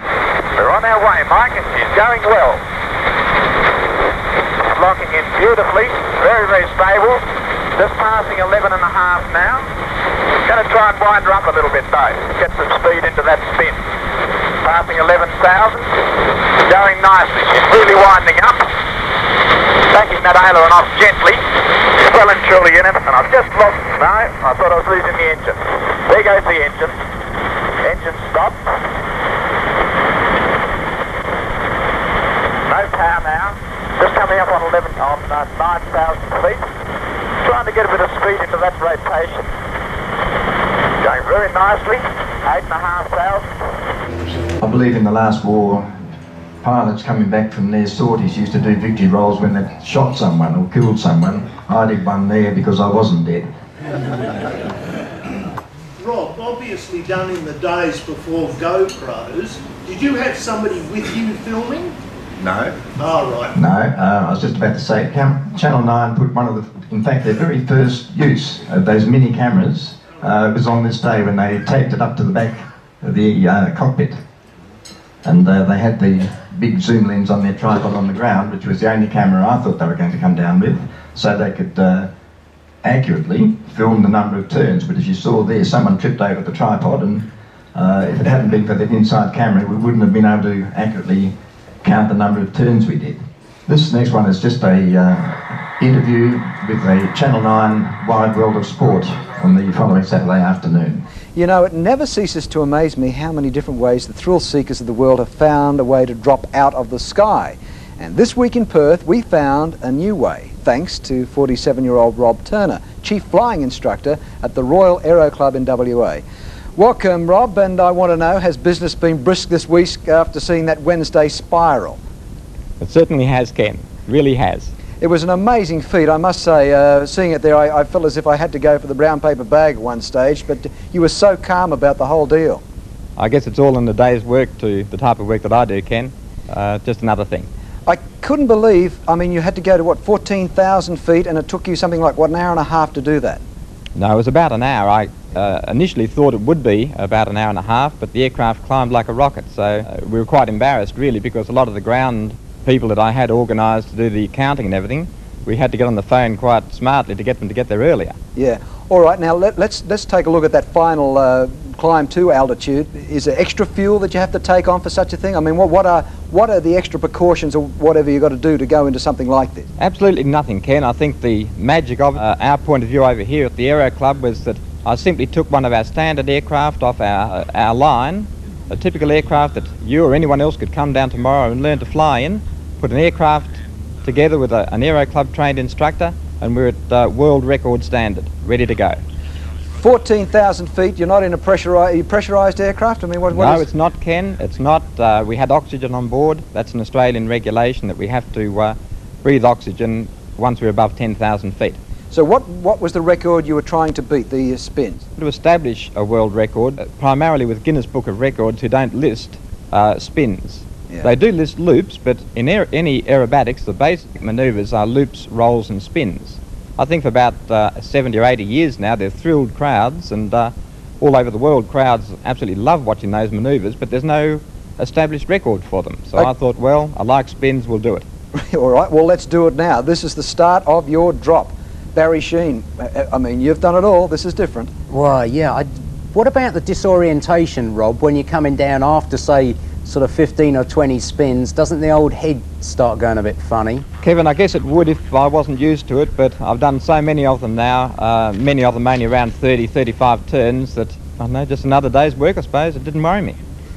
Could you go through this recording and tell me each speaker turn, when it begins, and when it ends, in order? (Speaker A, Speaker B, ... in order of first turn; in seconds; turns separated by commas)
Speaker A: 0.5-2.6, Speaker A: 4.7-9.7, Speaker A: 10.4-13.8, Speaker A: 14.6-18.6, Speaker A: 19.9-27.0, Speaker A: 27.8-28.7, Speaker A: 32.6-36.7, Speaker A: 37.4-39.5, Speaker A: 41.0-43.5, Speaker B: 44.6-45.9, Speaker B: 46.6-53.5, Speaker C: 56.0-62.0, Speaker B: 62.4-62.8, Speaker C: 62.9-63.5, Speaker B: 63.5-74.2, Speaker B: 75.2-82.1, Speaker B: 82.8-101.0, Speaker D: 101.3-116.2, Speaker D: 116.8-122.0, Speaker E: 122.8-124.7, Speaker D: 125.0-132.6, Speaker E: 133.2-137.5, Speaker D: 137.8-143.4, Speaker E: 143.9-158.2, Speaker D: 158.3-169.7, Speaker E: 169.8-189.0, Speaker D: 189.8-193.6, Speaker E: 193.3-201.8, Speaker D: 202.1-205.0, Speaker E: 205.2-228.0, Speaker D: 228.3-234.7, Speaker F: 234.9-243.8, Speaker E: 244.0-253.4